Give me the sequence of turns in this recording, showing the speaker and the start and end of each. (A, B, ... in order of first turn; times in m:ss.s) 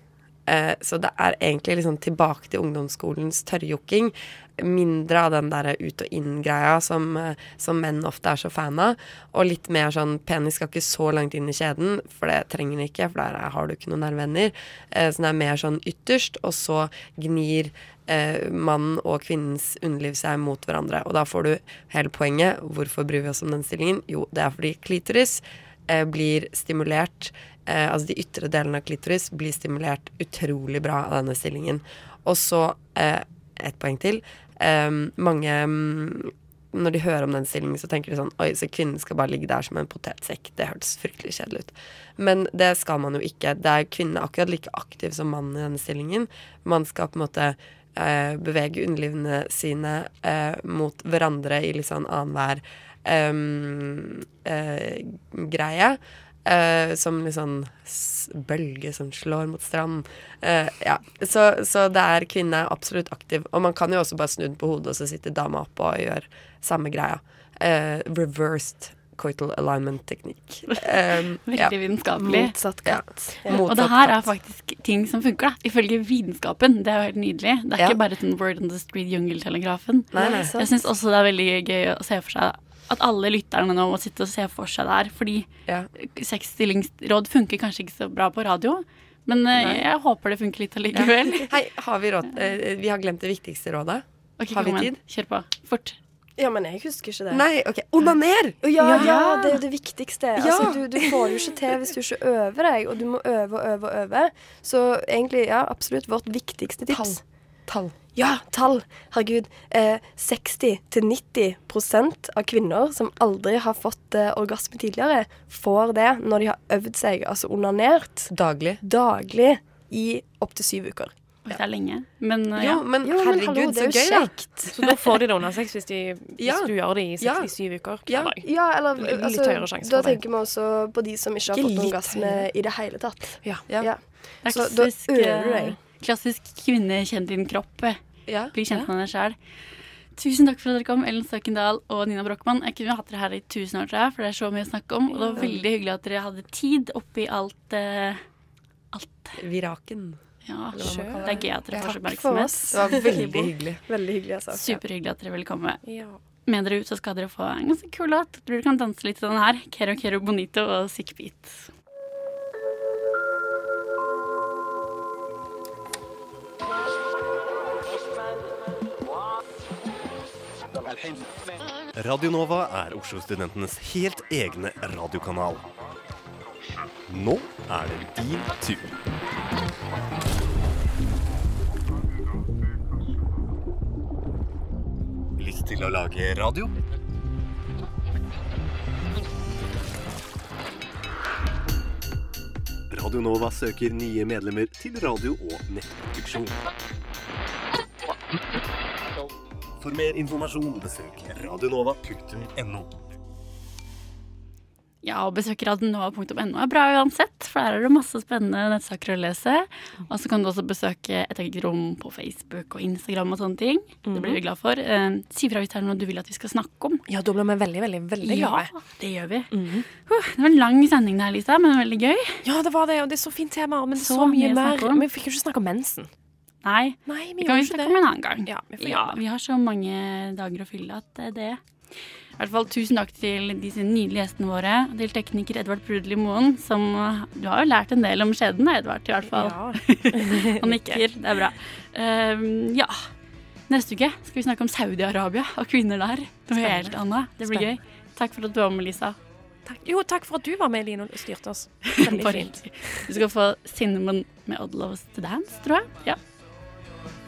0:00.5-1:11.7 A
1:11.5-1:12.6 B
1:12.2-1:13.6 C
1:12.9-1:14.3 A
1:13.5-1:31.5 B
1:20.1-1:20.5 A
1:20.2-1:20.7 C
1:30.9-1:35.0 A
1:34.4-1:36.0 B
1:36.4-1:37.4 C
1:37.3-1:39.2 A
1:38.6-1:47.2 C
1:38.8-1:39.2 D
1:39.1-1:39.5 B
1:40.4-1:40.8 A
1:46.9-1:48.0 A
1:48.2-1:58.3 C
1:58.3-1:58.8 A
1:58.8-2:01.1 C
2:01.5-2:02.8 B
2:02.6-2:04.4 A
2:03.0-2:04.7 C
2:04.7-2:08.5 D
2:06.4-2:07.5 A
2:08.0-2:08.4 A
2:08.4-2:15.8 C
2:09.0-2:10.2 D
2:11.6-2:12.2 A
2:11.6-2:12.4 D
2:14.4-2:18.0 B
2:18.3-2:18.6 A
2:18.5-2:19.4 B
2:20.2-2:28.2 B
2:25.1-2:25.4 D
2:28.9-2:29.4 B
2:29.4-2:30.2 A
2:30.4-2:33.3 B
2:30.7-2:31.9 A
2:30.8-2:31.2 D
2:31.9-2:34.8 C
2:32.7-2:33.8 A
2:34.5-2:35.8 B
2:35.8-2:36.2 D
2:36.5-2:41.7 B
2:52.0-2:55.6 E
2:57.1-2:59.0 E
3:05.4-3:06.7 E
3:12.9-3:16.6 E
3:19.8-3:22.9 E
3:25.0-3:37.0 B
3:34.0-3:34.4 D
3:37.1-3:38.8 D
3:38.2-3:42.4 B
3:39.5-3:39.9 D
3:42.4-3:46.1 D
3:44.0-3:45.0 B
3:46.6-3:51.6 B
3:47.1-3:49.2 D
3:52.4-4:03.1 B
3:59.3-4:01.0 D
4:03.7-4:09.2 B
4:06.6-4:07.7 D
4:09.6-4:13.1 D
4:12.1-4:16.2 B